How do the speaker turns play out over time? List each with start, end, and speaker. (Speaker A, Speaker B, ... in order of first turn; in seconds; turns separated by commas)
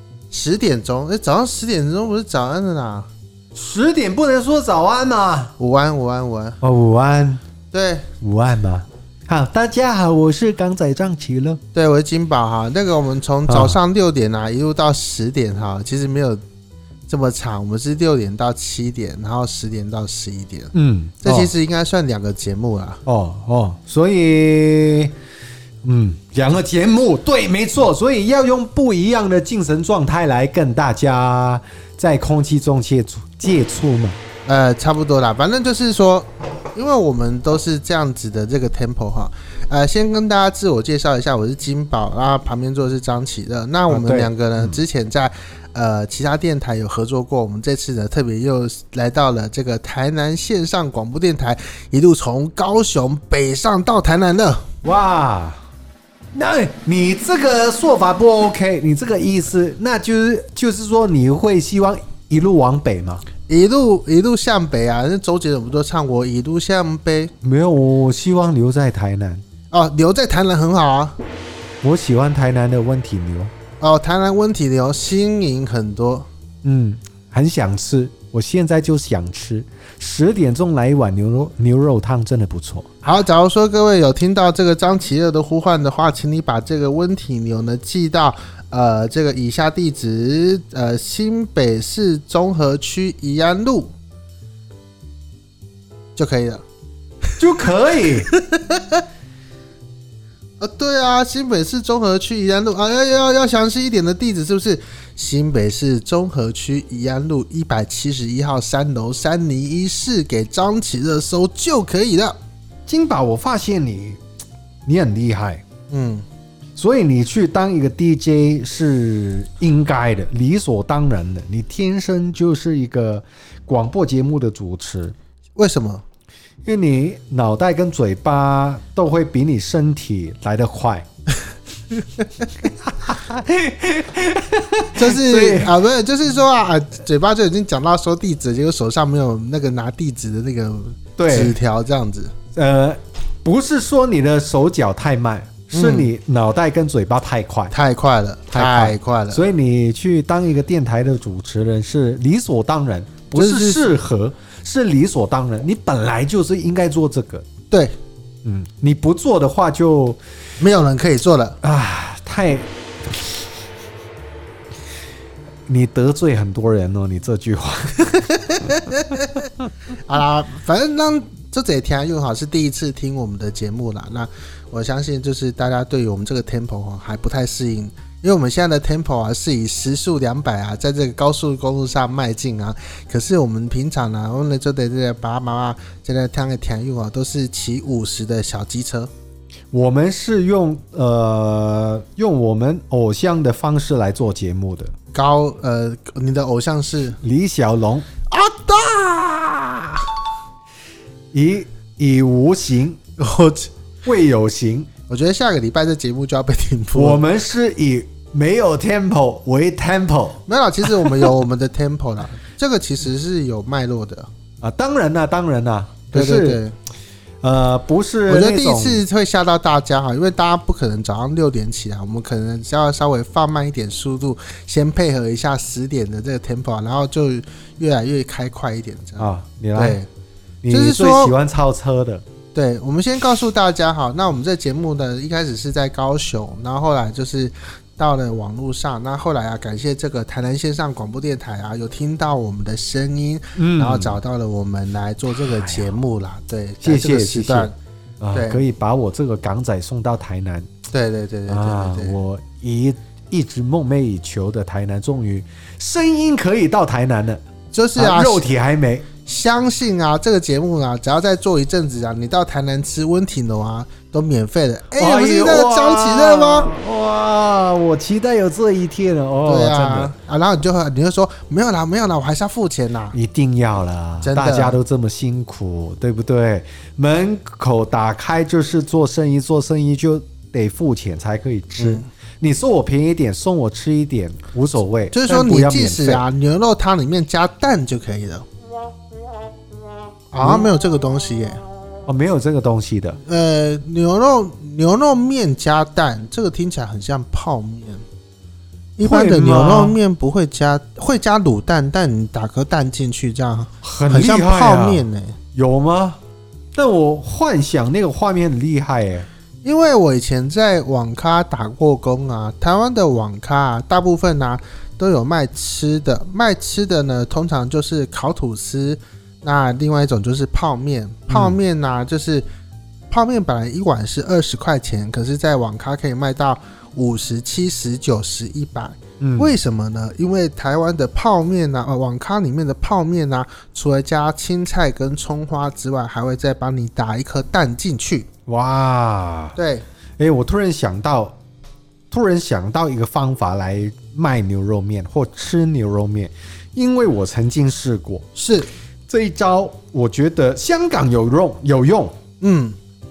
Speaker A: 0.3-3.1, Speaker B: 3.5-5.5, Speaker A: 5.6-6.6, Speaker B: 6.6-7.4, Speaker A: 7.7-8.1, Speaker B: 8.2-11.6, Speaker A: 11.7-16.4, Speaker B: 13.5-13.8, Speaker A: 17.1-23.0, Speaker B: 20.7-21.5, Speaker B: 23.0-25.1, Speaker B: 25.8-34.2, Speaker A: 34.5-54.7, Speaker B: 43.9-44.8, Speaker B: 54.8-55.6, Speaker B: 56.3-63.2, Speaker A: 63.5-67.3, Speaker B: 67.4-69.4, Speaker A: 69.7-71.2, Speaker B: 71.8-73.5, Speaker A: 73.8-76.3, Speaker B: 76.6-82.9, Speaker A: 83.0-93.9, Speaker A: 96.2-96.6, Speaker B: 97.4-98.3, Speaker A: 98.3-99.0, Speaker A: 100.6-112.3, Speaker B: 112.9-114.2, Speaker B: 114.8-115.6, Speaker A: 115.9-116.2, Speaker B: 116.8-125.1, Speaker A: 125.6-126.0, Speaker B: 126.7-131.1, Speaker B: 132.6-135.8, Speaker A: 134.9-142.3, Speaker B: 141.2-141.5, Speaker B: 142.5-147.7, Speaker A: 145.7-146.1, Speaker A: 147.7-149.4, Speaker B: 148.5-157.4, Speaker A: 153.3-153.9, Speaker A: 157.7-157.9, Speaker B: 158.4-160.2, Speaker A: 160.6-161.6, Speaker B: 161.6-163.2, Speaker B: 165.7-168.7, Speaker A: 168.6-169.4, Speaker A: 170.1-189.1, Speaker B: 189.7-194.9, Speaker A: 195.1-197.2, Speaker B: 197.2-198.1, Speaker A: 198.3-200.1, Speaker B: 201.3-203.0, Speaker A: 203.2-203.7, Speaker B: 204.0-204.9, Speaker A: 205.1-207.2, Speaker B: 206.9-210.4, Speaker A: 210.4-214.3, Speaker B: 214.6-216.6, Speaker A: 216.1-216.7, Speaker B: 217.4-219.0, Speaker A: 218.3-230.1, Speaker B: 229.2-230.0, Speaker B: 230.6-232.2, Speaker A: 230.7-231.3, Speaker A: 232.5-247.7, Speaker B: 243.5-244.2, Speaker B: 245.3-245.9, Speaker B: 246.8-250.7, Speaker A: 248.3-248.6, Speaker A: 250.9-252.2, Speaker B: 251.5-257.4, Speaker A: 257.7-258.5, Speaker B: 257.9-259.1, Speaker A: 259.2-266.7, Speaker B: 264.9-270.1, Speaker A: 269.4-273.1, Speaker B: 273.1-286.2, Speaker A: 274.2-274.8, Speaker A: 281.8-282.1, Speaker A: 285.1-288.4, Speaker A: 290.3-291.6, Speaker B: 290.4-290.7, Speaker B: 292.1-293.2, Speaker A: 293.2-298.0, Speaker A: 299.0-305.4, Speaker B: 299.0-300.0, Speaker B: 303.8-306.2, Speaker B: 306.7-309.3, Speaker A: 309.6-322.4, Speaker B: 321.3-321.6, Speaker A: 323.1-338.3, Speaker B: 329.2-329.5, Speaker B: 338.5-339.6, Speaker A: 339.6-339.8, Speaker B: 340.2-341.4, Speaker B: 342.1-348.2, Speaker A: 348.3-348.7, Speaker B: 349.1-352.1, Speaker A: 352.4-352.8